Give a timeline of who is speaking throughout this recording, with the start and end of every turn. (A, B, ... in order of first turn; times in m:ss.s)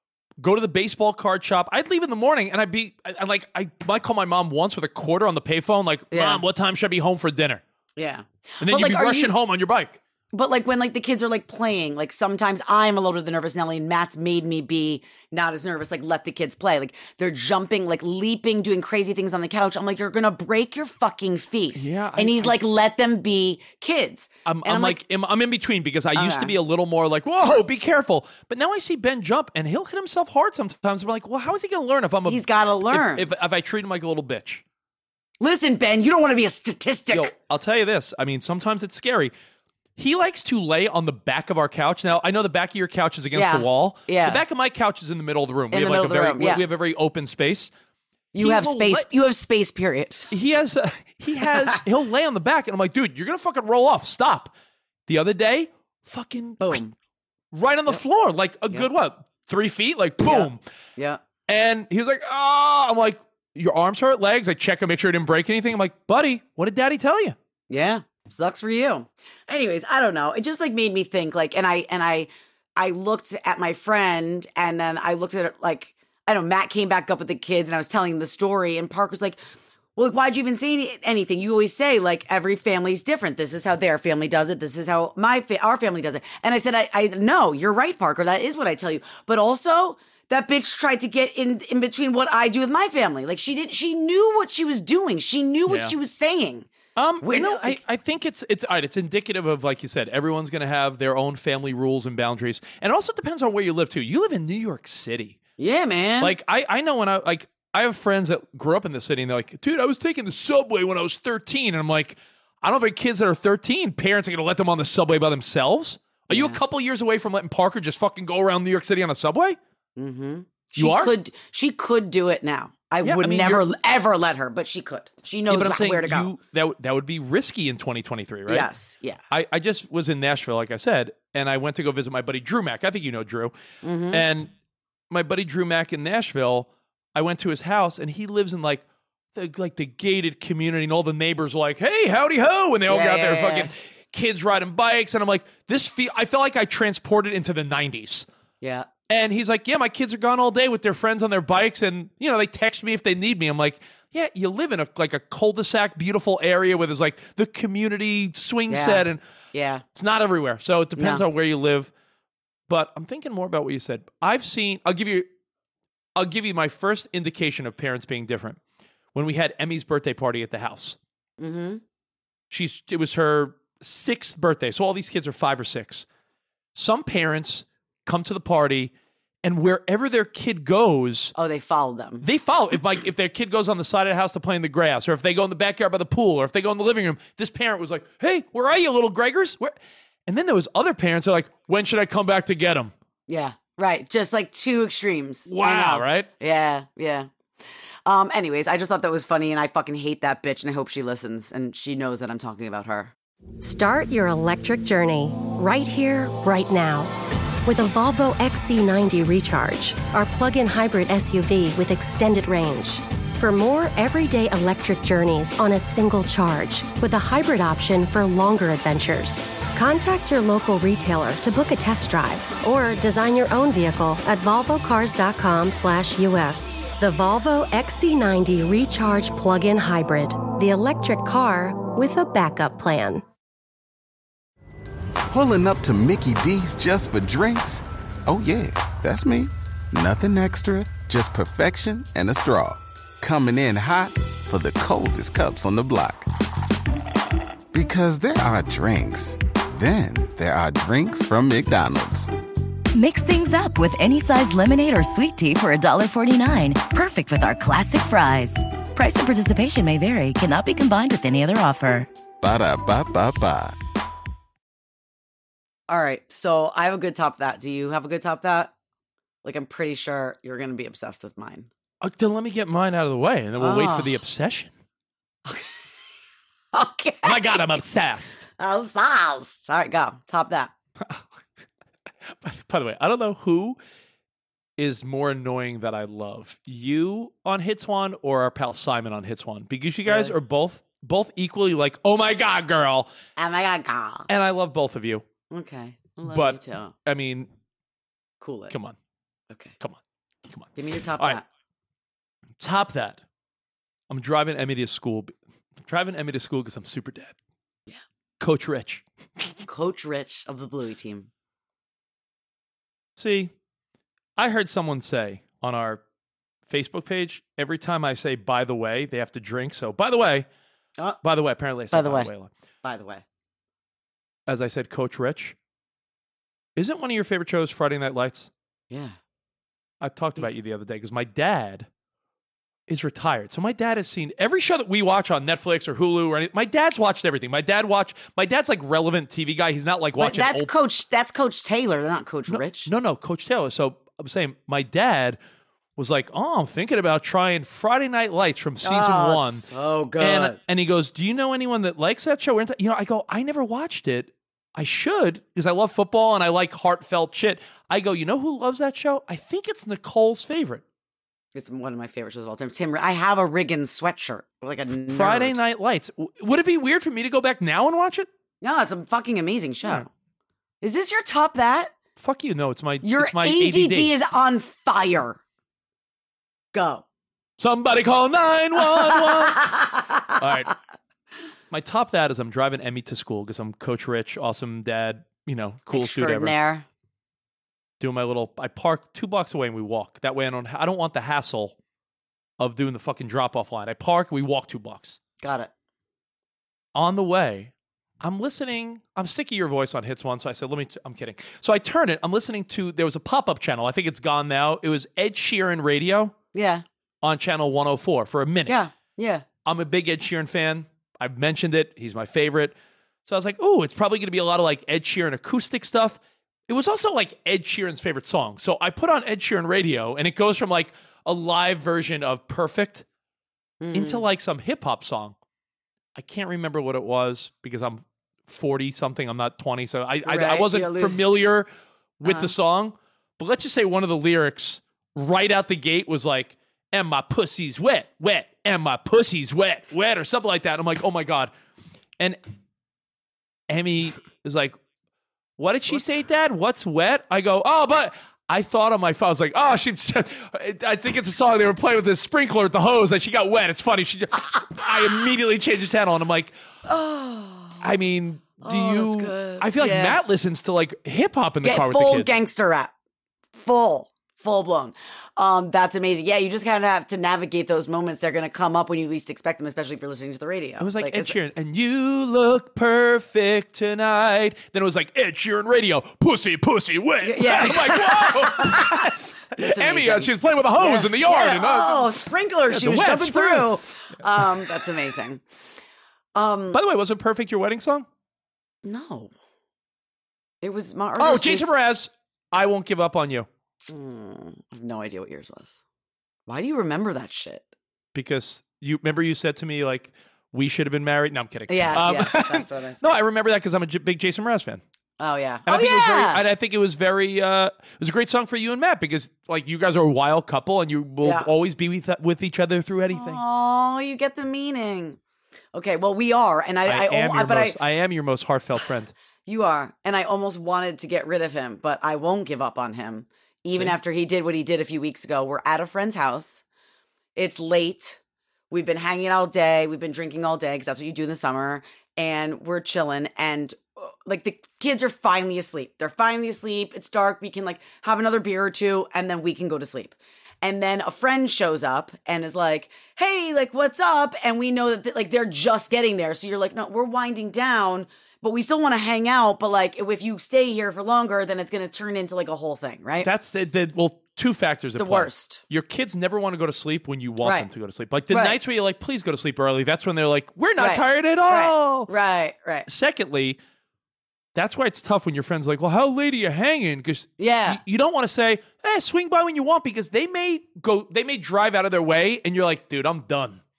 0:00.4-0:07.6 A
0:06.1-0:06.4 B
0:08.0-0:09.3 B
0:08.6-0:10.0 A
0:10.3-0:25.0 B
0:21.7-0:22.6 A
0:24.4-0:34.6 A
0:26.1-0:26.5 B
0:32.2-0:33.3 B
0:35.4-0:37.3 B
0:37.1-0:39.3 A
0:40.0-0:47.7 A
0:43.3-0:44.4 B
0:45.7-0:46.6 B
0:48.3-0:50.3 B
0:48.4-0:49.0 A
0:50.3-0:54.5 A
0:51.4-0:51.8 B
0:55.1-0:56.8 A
0:56.6-0:56.9 B
0:57.5-1:00.6 A
1:00.2-1:01.2 B
1:01.5-1:07.4 A
1:07.7-1:19.4 B
1:20.0-1:36.7 B
1:35.7-1:35.9 A
1:37.0-1:45.4 A
1:37.2-1:37.8 B
1:45.6-1:46.3 B
1:46.2-1:59.6 A
1:56.3-1:56.6 B
2:00.0-2:06.3 B
2:00.8-2:01.1 A
2:03.0-2:03.6 A
2:05.5-2:08.7 A
2:08.5-2:09.2 B
2:09.3-2:13.5 A
2:13.8-2:14.2 B
2:14.1-2:14.5 A
2:15.1-2:18.8 A
2:19.3-2:28.3 A
2:22.9-2:23.7 B
2:28.6-2:28.9 B
2:29.1-2:39.2 A
2:38.7-2:39.8 B
2:39.9-2:41.9 A
2:41.0-2:41.2 B
2:42.7-2:45.2 A
2:46.2-2:48.6 A
2:49.1-2:51.0 A
2:51.4-2:51.8 B
2:52.5-2:56.0 A
2:56.7-2:58.9 A
2:59.4-3:01.3 A
3:01.4-3:02.2 B
3:02.2-3:09.7 A
3:10.3-3:12.9 A
3:13.3-3:17.3 B
3:15.5-3:16.3 A
3:18.0-3:23.1 B
3:23.6-3:27.1 C
3:27.6-3:53.2 C
3:55.3-4:06.3 D
4:07.7-4:12.3 D
4:12.9-4:22.1 E
4:22.4-4:23.8 D
4:25.9-4:28.7 B
4:29.4-4:31.7 B
4:32.0-4:34.7 A
4:33.6-4:34.2 B
4:35.4-4:35.7 B
4:36.7-4:37.8 B
4:37.2-4:38.4 A
4:38.6-4:40.7 B
4:42.4-4:43.8 A
4:44.8-4:53.1 A
4:50.0-4:50.3 B
4:53.4-4:54.3 B
4:54.3-4:55.2 A
4:55.5-4:56.9 B
4:56.2-4:57.5 A
4:58.4-4:58.7 B
4:58.7-4:58.9 A
5:00.5-5:01.4 A
5:00.8-5:01.4 B
5:02.6-5:03.2 A
5:04.1-5:05.3 A
5:05.8-5:07.3 A
5:08.4-5:09.0 A
5:09.6-5:11.3 B
5:13.2-5:13.5 A
5:14.4-5:16.0 A
5:16.7-5:20.4 A
5:21.2-5:22.5 A
5:21.9-5:22.3 B
5:22.8-5:23.2 B
5:24.5-5:25.6 A
5:26.8-5:28.5 A
5:28.9-5:29.2 B
5:30.0-5:31.9 A
5:32.9-5:40.7 A
5:40.2-5:42.9 B
5:42.5-5:45.4 A
5:46.0-5:49.6 A
5:48.8-5:50.6 B
5:50.2-6:00.8 A
6:01.5-6:05.6 B
6:05.1-6:08.3 A
6:08.6-6:10.1 B
6:10.8-6:11.9 B
6:12.2-6:14.1 A
6:13.0-6:15.4 B
6:16.7-6:17.0 B
6:17.6-6:19.7 A
6:18.8-6:20.2 B
6:20.4-6:20.7 A
6:21.7-6:26.5 A
6:25.9-6:26.8 B
6:28.0-6:31.7 A
6:32.6-6:35.2 A
6:35.4-6:35.7 B
6:36.9-6:46.3 A
6:46.5-6:46.8 B
6:47.2-6:48.8 A
6:48.7-6:49.4 B
6:49.6-6:52.7 A
6:53.2-7:03.0 A
7:03.8-7:04.2 B
7:03.9-7:05.3 A
7:06.2-7:11.7 A
7:10.2-7:11.2 B
7:12.2-7:21.5 A
7:12.2-7:12.5 B
7:23.7-7:24.8 A
7:25.6-7:36.5 A
7:36.8-7:37.8 B
7:37.8-7:42.4 A
7:38.6-7:40.2 B
7:41.6-7:42.9 B
7:43.5-7:51.4 B
7:50.8-8:03.8 A
7:57.2-8:05.4 B
8:04.4-8:04.8 A
8:06.3-8:06.8 B
8:06.7-8:08.0 A
8:08.8-8:09.3 B
8:10.6-8:11.7 B
8:11.2-8:13.5 A
8:13.9-8:15.8 B
8:16.5-8:17.6 B
8:18.1-8:24.8 A
8:21.7-8:23.0 B
8:25.2-8:26.4 B
8:25.6-8:33.4 A
8:31.2-8:31.5 B
8:33.1-8:35.2 B
8:35.7-8:37.8 B
8:36.8-8:39.1 A
8:39.4-8:46.6 B
8:47.4-8:48.2 B
8:48.7-9:13.3 B
9:13.2-9:22.1 A
9:15.0-9:15.6 B
9:17.4-9:17.7 B
9:18.3-9:18.6 B
9:20.8-9:22.9 B
9:22.8-9:23.6 A
9:24.5-9:33.6 A
9:27.4-9:27.8 B